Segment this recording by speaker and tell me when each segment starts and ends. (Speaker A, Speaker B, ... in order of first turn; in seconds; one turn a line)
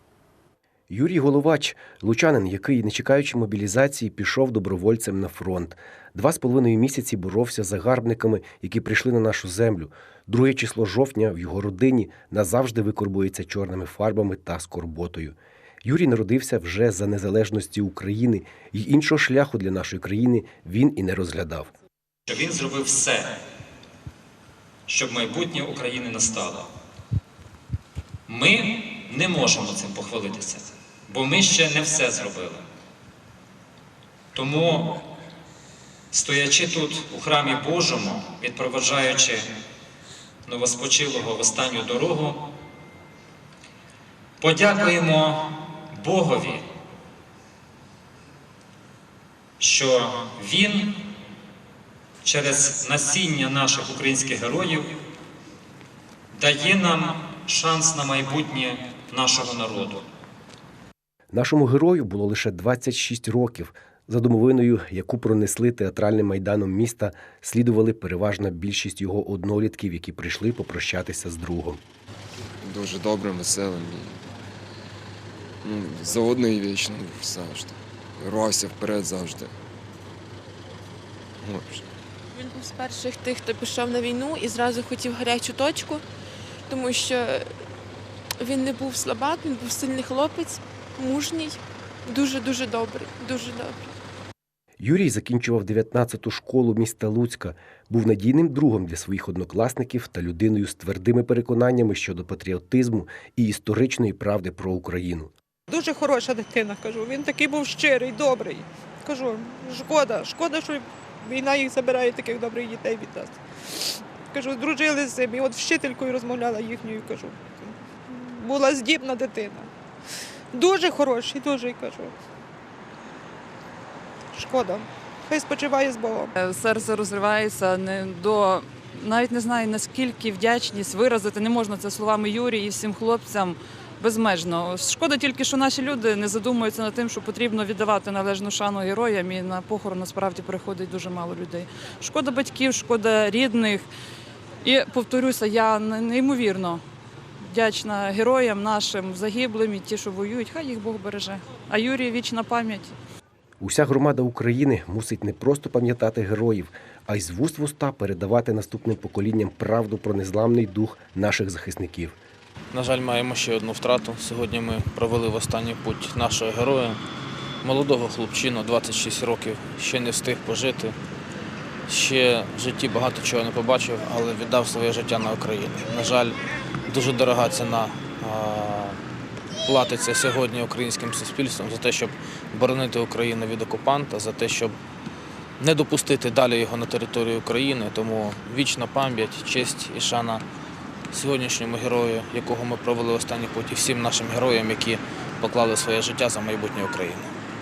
Speaker A: 0.9-21.7
Speaker B: 22.3-23.4
Speaker B: 24.9-26.7
Speaker B: 28.3-32.6
Speaker B: 34.3-35.0
Speaker B: 36.1-39.6
Speaker B: 40.5-42.5
Speaker B: 44.4-46.6
Speaker B: 49.6-51.0
Speaker B: 52.2-55.0
Speaker B: 56.3-60.0
Speaker A: 61.3-71.8
Speaker C: 72.6-74.3
Speaker C: 75.6-79.5
Speaker C: 81.4-81.9
Speaker D: 82.3-86.0
Speaker D: 86.7-87.5
Speaker D: 88.4-94.0
Speaker A: 94.8-105.3
Speaker E: 105.7-119.7
Speaker E: 120.5-122.1
Speaker E: 124.3-126.3
Speaker F: 126.4-143.9
Speaker F: 144.6-146.8
Speaker F: 147.5-152.9
Speaker A: 153.6-162.2
Speaker G: 162.7-167.0
Speaker G: 167.6-171.0
Speaker G: 171.9-179.0
Speaker G: 179.6-184.8
Speaker G: 185.6-190.4
Speaker G: 191.1-197.3